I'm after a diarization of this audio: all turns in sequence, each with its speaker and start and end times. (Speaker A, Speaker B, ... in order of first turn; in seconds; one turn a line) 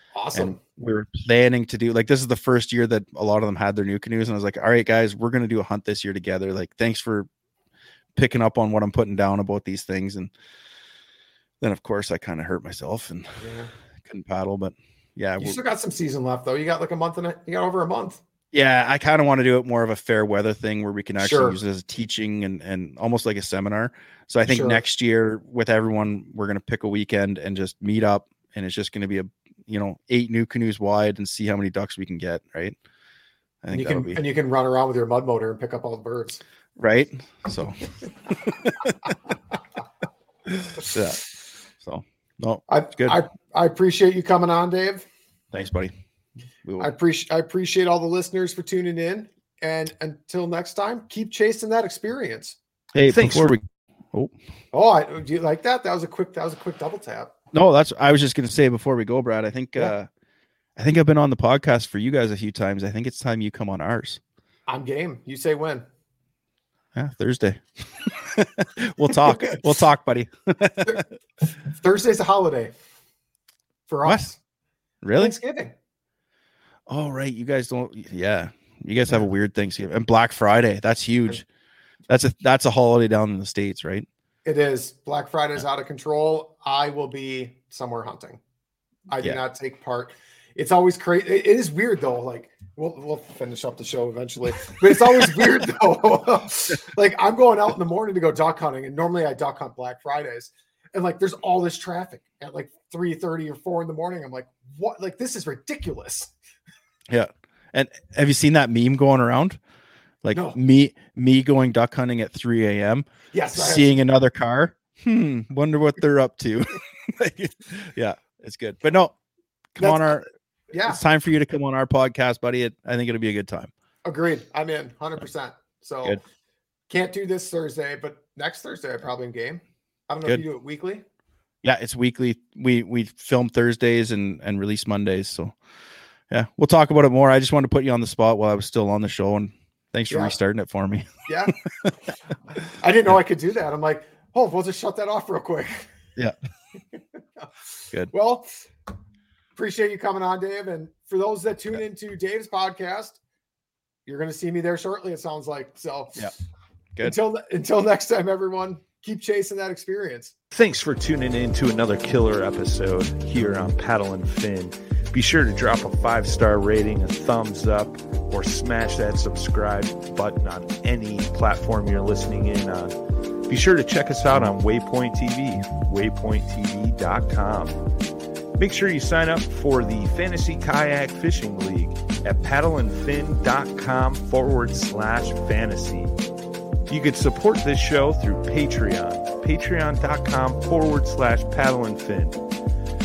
Speaker A: 0.1-0.6
Speaker B: 0.3-7.3
Speaker B: 8.2-10.3
Speaker B: 11.6-13.4
Speaker A: 13.4-13.7
Speaker B: 14.1-15.6
Speaker A: 15.4-18.2
Speaker B: 18.5-32.8
Speaker A: 21.2-21.6
Speaker A: 24.5-24.8
Speaker B: 33.6-34.2
Speaker A: 33.7-36.4
Speaker B: 36.8-37.8
Speaker B: 38.5-38.9
Speaker B: 40.6-41.2
Speaker B: 41.8-43.2
Speaker A: 42.7-45.1
Speaker B: 45.5-45.9
Speaker B: 46.6-46.9
Speaker A: 46.8-52.6
Speaker B: 52.9-54.3
Speaker A: 54.7-57.3
Speaker B: 57.5-60.1
Speaker B: 60.8-64.2
Speaker A: 64.7-65.8
Speaker B: 67.0-71.0
Speaker A: 69.2-69.6
Speaker A: 71.7-72.7
Speaker A: 73.9-74.4
Speaker B: 75.0-75.3
Speaker A: 75.2-75.7
Speaker B: 76.9-81.4
Speaker B: 82.1-84.1
Speaker A: 84.5-88.4
Speaker A: 89.1-106.3
Speaker B: 107.1-109.6
Speaker B: 110.2-119.2
Speaker A: 113.3-113.9
Speaker B: 119.8-120.3
Speaker A: 119.8-121.0
Speaker B: 120.8-123.7
Speaker A: 124.0-126.2
Speaker A: 126.9-131.0
Speaker B: 131.6-135.6
Speaker B: 136.3-141.1
Speaker A: 140.1-140.3
Speaker A: 141.3-141.6
Speaker A: 142.7-145.9
Speaker A: 148.1-148.7
Speaker A: 149.6-153.2
Speaker A: 154.1-156.3
Speaker A: 157.0-160.3
Speaker C: 160.5-172.9
Speaker C: 173.5-177.8
Speaker C: 178.6-186.1
Speaker C: 186.9-192.4